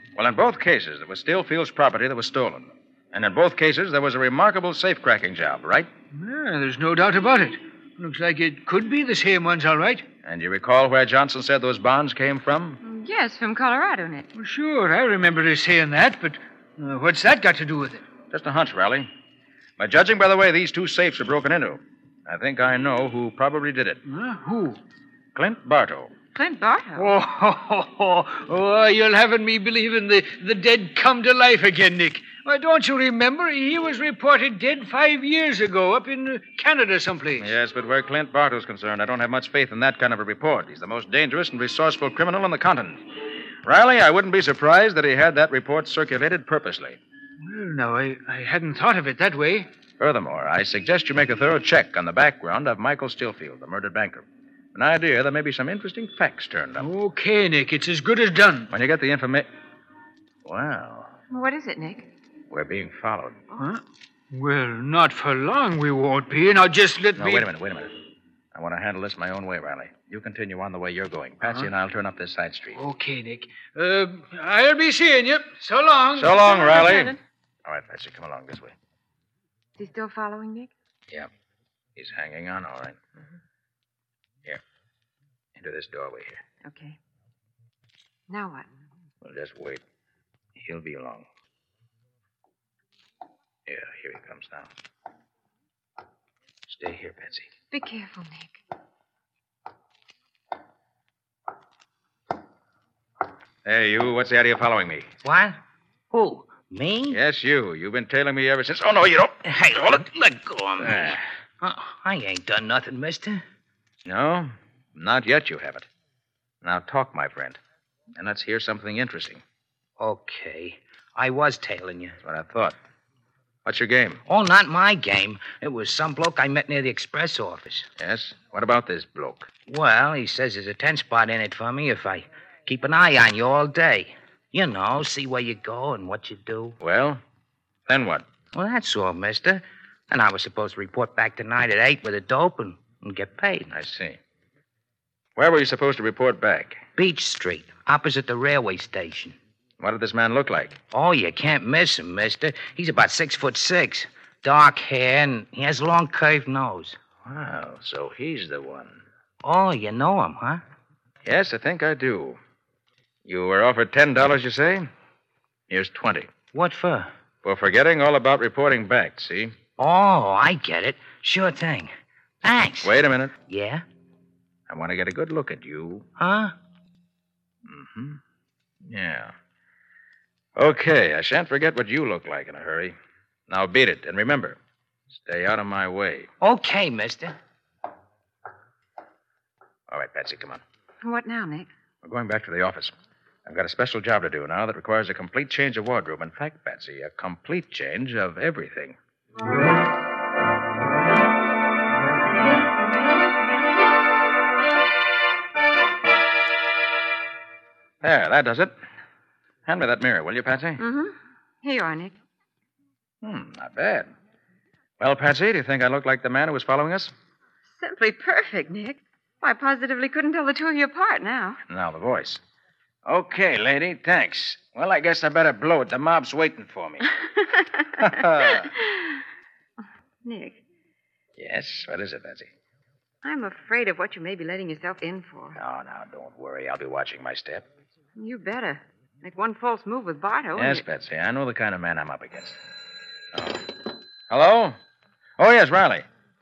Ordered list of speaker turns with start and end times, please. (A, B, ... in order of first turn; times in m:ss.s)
0:00.2-0:05.9 A
0:06.1-0:10.0 B
0:10.2-0:12.8 A
0:12.8-0:14.3 C
0:14.3-0:18.0 B
0:18.3-0:19.1 A
0:19.8-0:24.0 A
0:24.0-0:24.8 B
0:25.3-0:26.1 A
0:26.3-0:27.1 C
0:26.9-0:37.5 B
0:37.4-0:43.0 A
0:43.6-0:47.0 A
0:47.4-0:49.7 B
0:50.0-0:56.9 A
0:56.8-0:58.7 B
0:58.7-0:59.5 A
1:00.4-1:01.1 A
1:01.3-1:02.1 C
1:02.5-1:03.4 A
1:03.6-1:07.5 B
1:07.2-1:07.9 A
1:08.5-1:12.8 A
1:11.4-1:11.7 B
1:12.7-1:16.4 B
1:16.1-1:18.7 A
1:16.4-1:17.2 C
1:19.8-1:20.7 C
1:22.0-1:23.0 A
1:25.6-1:26.4 A
1:26.6-1:27.0 C
1:28.3-1:28.7 C
1:29.2-1:29.8 A
1:30.6-1:31.2 A
1:33.7-1:34.7 A
1:36.7-1:37.5 A
1:37.7-1:38.6 C
1:43.6-1:45.1 A
1:45.2-1:45.6 D
1:46.1-1:47.2 D
1:47.1-1:49.4 A
1:49.4-1:53.4 D
1:50.8-1:51.2 A
1:54.0-1:55.9 A
1:56.6-1:57.6 A
1:58.2-1:59.4 A
2:00.0-2:02.2 D
2:02.2-2:02.8 A
2:03.6-2:04.2 A
2:04.3-2:07.9 D
2:08.0-2:09.5 A
2:09.7-2:16.8 D
2:16.8-2:17.2 A
2:17.9-2:18.3 A
2:18.5-2:23.7 D
2:23.7-2:24.2 A
2:25.4-2:26.8 A
2:27.0-2:29.4 D
2:29.8-2:30.8 A
2:30.9-2:37.0 D
2:37.2-2:39.0 A
2:39.4-2:40.6 D
2:41.2-2:42.4 A
2:43.2-2:44.9 A
2:45.7-2:46.3 A
2:46.5-2:47.1 D
2:47.4-2:49.5 A
2:49.8-2:51.9 D
2:52.4-2:53.8 D
2:52.8-2:53.3 A
2:54.7-2:56.1 A
2:56.2-2:56.5 D
2:57.6-2:58.2 A
2:58.8-2:59.3 A
3:00.6-3:03.0 A
3:03.5-3:04.6 A
3:05.1-3:06.3 A
3:06.4-3:07.3 D
3:09.9-3:10.6 A
3:11.0-3:11.7 C
3:12.0-3:12.9 A
3:13.4-3:19.0 A
3:28.0-3:28.7 A
3:29.6-3:30.8 A
3:30.8-3:32.2 C
3:33.2-3:34.1 A
3:35.0-3:37.1 A
3:37.8-3:41.6 C
3:41.7-3:42.4 A
3:43.0-3:47.0 A
3:47.4-3:47.8 C
3:48.0-3:48.7 A
3:48.4-3:49.2 C
3:50.2-3:50.6 C
3:51.4-3:52.5 A
3:53.2-3:55.6 C
3:55.6-3:57.6 A
3:58.2-4:00.8 C
4:00.6-4:02.6 A
4:03.3-4:03.8 A
4:04.3-4:04.8 A
4:05.4-4:06.0 A